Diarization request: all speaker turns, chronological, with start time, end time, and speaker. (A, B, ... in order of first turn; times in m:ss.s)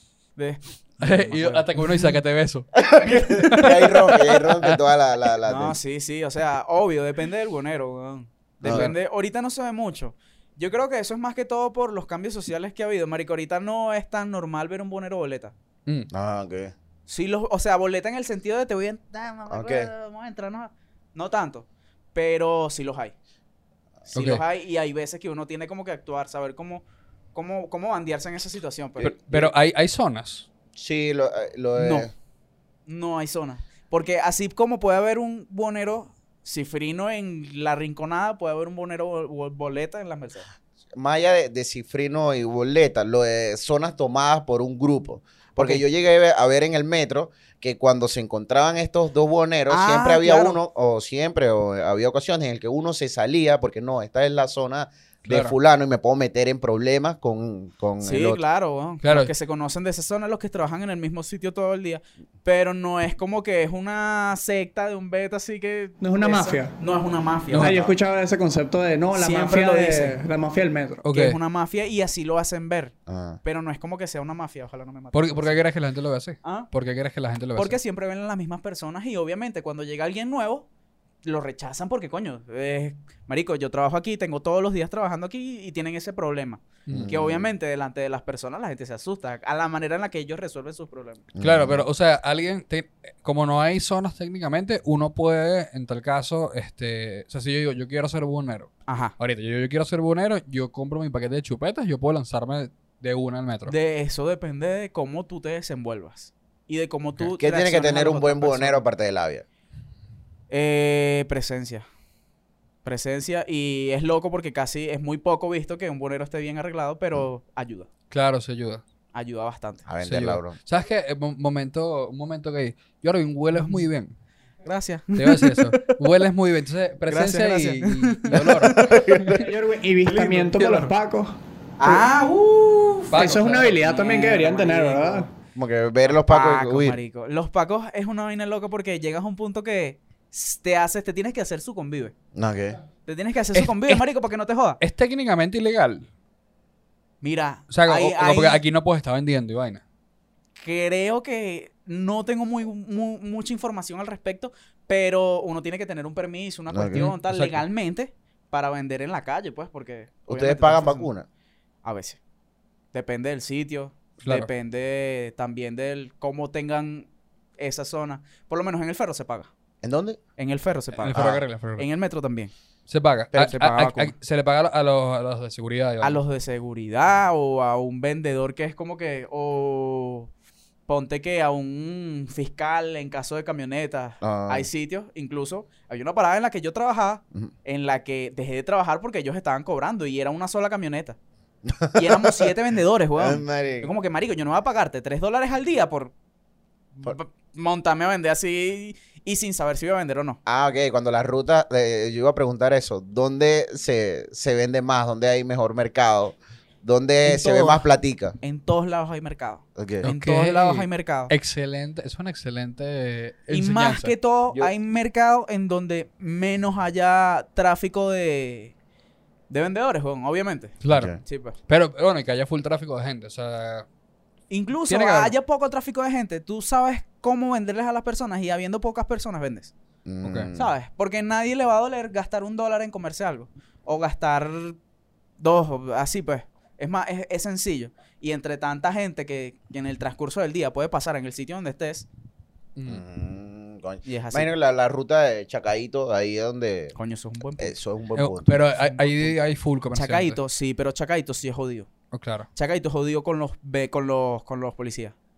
0:00.4-0:02.1 A
0:01.0-0:04.8 B
0:02.8-0:05.8 C
0:03.2-0:03.7 A
0:05.5-0:15.5 A
0:08.6-0:08.9 C
0:08.6-0:09.0 B
0:16.1-0:16.7 C
0:17.1-0:23.2 A
0:19.5-0:19.9 C
0:24.1-0:29.2 A
0:24.1-0:24.4 B
0:29.0-0:29.5 C
0:29.0-0:30.5 B
0:30.8-0:32.1 C
0:31.8-0:32.1 A
0:32.9-0:40.5 A
0:40.9-0:58.4 C
0:45.6-0:45.8 A
0:49.7-0:50.6 A
0:55.3-0:55.6 B
0:58.0-1:07.8 A
0:59.0-0:59.3 B
1:06.0-1:06.7 D
1:07.5-1:07.8 B
1:07.5-1:11.0 D
1:09.1-1:10.2 A
1:11.0-1:11.4 B
1:11.1-1:15.6 A
1:13.1-1:13.4 C
1:15.1-1:17.8 B
1:16.4-1:16.7 A
1:17.6-1:20.7 A
1:21.2-1:31.3 A
1:26.9-1:27.1 B
1:26.9-1:27.5 C
1:31.3-1:31.9 C
1:31.4-1:43.7 B
1:38.9-1:39.2 A
1:43.7-1:48.8 A
1:47.4-1:49.4 C
1:50.5-1:51.8 A
1:52.8-1:57.9 A
1:58.1-1:58.8 B
1:59.1-1:59.9 A
1:59.9-2:00.6 C
2:00.0-2:04.1 B
2:03.5-2:03.9 A
2:04.6-2:06.0 A
2:05.2-2:08.9 B
2:07.1-2:09.2 A
2:08.8-2:09.4 C
2:09.3-2:12.0 D
2:10.0-2:10.7 A
2:10.6-2:10.9 B
2:11.8-2:15.3 A
2:13.1-2:13.8 B
2:13.1-2:15.3 D
2:15.6-2:17.0 C
2:16.0-2:22.1 A
2:22.4-2:22.8 C
2:23.1-2:24.8 A
2:23.5-2:24.1 B
2:24.8-2:26.1 B
2:27.2-2:28.6 A
2:27.7-2:29.8 B
2:30.6-2:41.1 A
2:36.7-2:37.1 C
2:36.9-2:37.6 B
2:40.3-2:41.3 C
2:41.8-2:42.2 A
2:42.9-2:49.5 A
2:44.2-2:44.5 B
2:49.8-2:50.2 C
2:50.4-2:52.5 A
2:51.0-2:51.9 B
2:51.1-2:51.4 C
2:52.9-2:56.2 B
2:53.4-2:54.1 A
2:56.0-3:00.3 A
3:00.9-3:11.2 A
3:04.2-3:04.7 C
3:11.6-3:12.5 C
3:12.0-3:16.1 A
3:13.2-3:13.9 C
3:17.0-3:20.4 A
3:20.5-3:28.4 C
3:27.2-3:27.8 A
3:28.4-3:31.3 A
3:29.8-3:30.0 C
3:30.0-3:34.1 B
3:33.5-3:38.7 A
3:39.5-3:41.6 A
3:40.8-3:43.9 B
3:40.9-3:41.2 C
3:44.5-3:49.7 A
3:44.9-3:45.3 B
3:50.0-3:50.7 C
3:50.2-3:50.5 B
3:50.5-3:54.8 A
3:55.4-4:02.1 A
4:02.8-4:03.0 B
4:02.9-4:06.9 C
4:04.0-4:04.5 A
4:07.0-4:07.8 A
4:07.6-4:08.6 C
4:08.2-4:10.4 B
4:08.8-4:09.4 A
4:09.9-4:11.9 A
4:12.1-4:12.5 B
4:12.6-4:15.2 A